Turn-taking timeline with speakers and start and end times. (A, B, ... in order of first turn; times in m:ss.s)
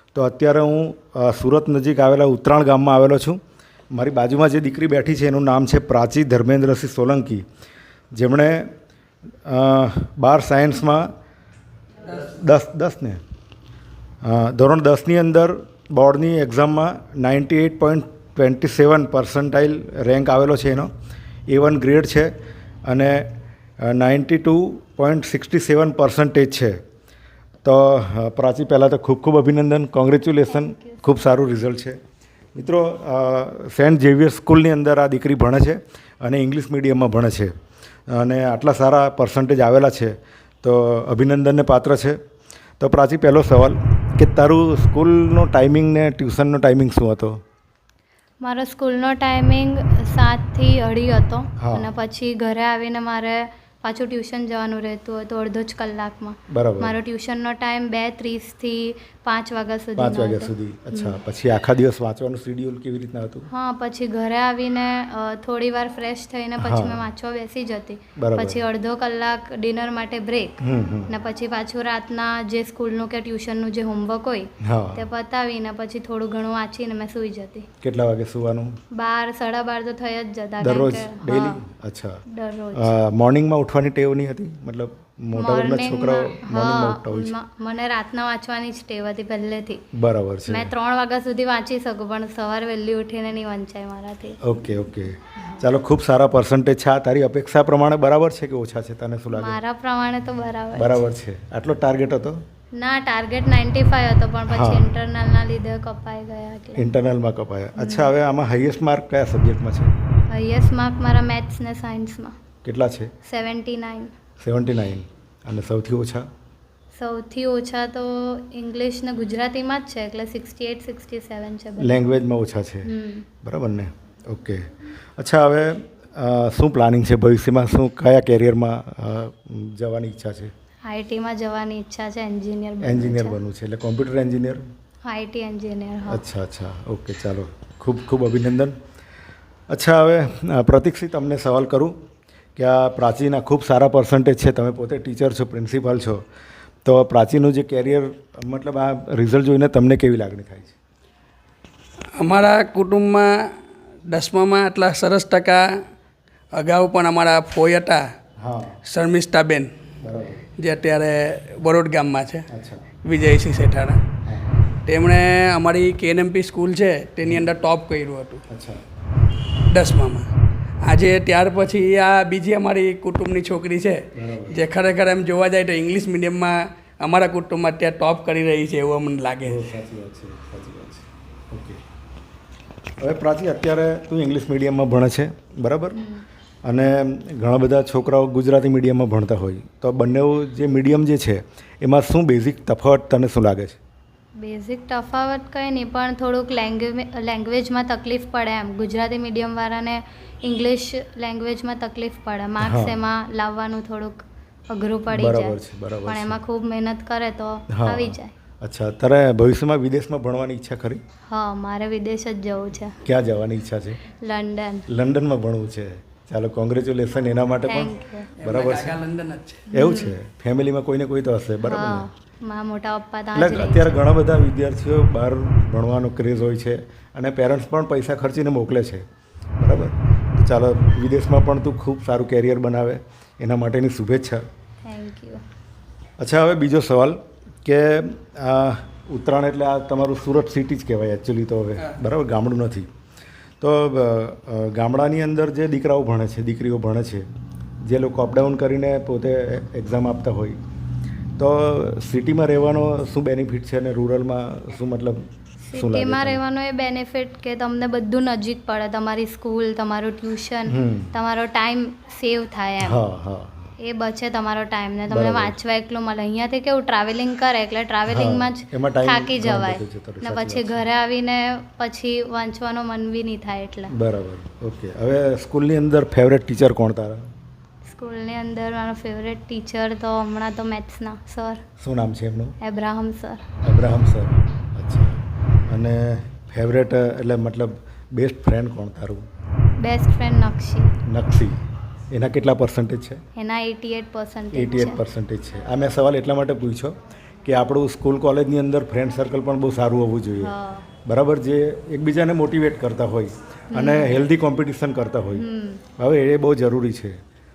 0:00.1-0:03.4 A
0:03.9-0:07.4 A
0:08.1-0:08.7 A
0:09.4-0:11.1 A
0:12.2-0:13.2 A
0:14.2-0:20.9 A
0:21.5-0:22.3 A
0:22.9-0:23.3 A
0:23.8-0:26.8 A
0:27.6-0:32.0 A
0:30.6-0:31.0 B
0:32.6-0:37.5 A
0:38.1-0:42.2 A
0:42.8-0:47.4 A
0:48.4-1:01.2 B
0:51.6-0:51.9 A
0:56.5-0:57.0 A
1:00.0-1:03.5 A
1:03.5-1:17.7 B
1:06.6-1:07.0 A
1:08.2-1:08.6 A
1:10.6-1:11.1 A
1:14.6-1:15.1 A
1:17.8-1:18.7 A
1:18.9-1:21.6 B
1:20.6-1:22.2 A
1:22.3-1:23.0 B
1:22.7-1:27.3 A
1:25.4-1:29.8 B
1:29.9-1:30.7 A
1:30.5-1:34.4 B
1:34.4-1:39.6 A
1:39.3-1:41.0 B
1:40.8-1:42.4 A
1:42.8-1:46.8 B
1:44.5-1:44.8 A
1:46.8-1:49.9 A
1:47.8-1:48.1 B
1:50.3-1:52.4 B
1:52.6-1:53.1 A
1:53.2-1:54.1 B
1:54.4-1:56.3 A
1:56.9-2:02.1 B
2:01.8-2:02.9 A
2:02.8-2:03.3 B
2:03.4-2:10.5 A
2:10.9-2:13.4 B
2:12.8-2:14.6 A
2:15.0-2:16.2 B
2:16.1-2:18.8 A
2:19.7-2:21.9 A
2:22.6-2:26.2 A
2:26.8-2:30.8 A
2:32.2-2:35.8 C
2:36.5-2:38.1 C
2:38.4-2:38.8 A
2:38.8-2:39.7 C
2:40.0-2:40.4 A
2:40.6-2:42.5 C
2:42.5-2:42.8 A
2:43.0-2:44.0 C
2:44.2-2:44.6 A
2:44.9-2:48.4 C
2:48.5-2:48.8 A
2:49.7-2:50.3 C
2:50.8-2:59.6 C
2:54.1-2:54.6 A
2:59.4-3:01.8 A
3:03.0-3:06.0 A
3:06.0-3:06.2 B
3:06.7-3:13.8 A
3:14.4-3:28.4 B
3:22.6-3:23.0 A
3:25.1-3:26.4 A
3:27.7-3:31.0 A
3:31.3-3:33.0 B
3:33.0-3:34.0 A
3:34.1-3:34.9 B
3:34.9-3:39.0 A
3:37.7-3:38.3 B
3:38.4-3:39.7 C
3:39.7-3:40.2 B
3:39.7-3:42.1 A
3:41.6-3:44.0 B
3:43.4-3:49.1 A
3:49.6-3:54.4 A
3:54.8-3:55.4 B
3:56.2-4:02.9 A
4:03.6-4:07.3 A
4:07.8-4:10.6 A
4:11.4-4:16.4 A
4:15.6-4:23.0 B
4:20.7-4:21.1 A
4:22.8-4:23.7 A
4:23.8-4:33.9 B
4:25.1-4:25.6 A
4:28.1-4:30.8 A
4:33.9-4:37.2 A
4:37.8-4:41.6 B
4:41.8-4:42.6 A
4:42.6-4:43.5 B
4:43.6-4:49.2 A
4:49.8-4:51.0 B
4:51.1-4:51.6 A
4:52.1-4:53.2 A
4:53.4-4:55.0 B
4:54.5-4:56.9 A
4:57.4-5:00.5 A
5:00.4-5:00.9 B
5:01.1-5:05.4 A
5:03.7-5:04.2 B
5:05.3-5:05.8 B
5:06.0-5:07.2 A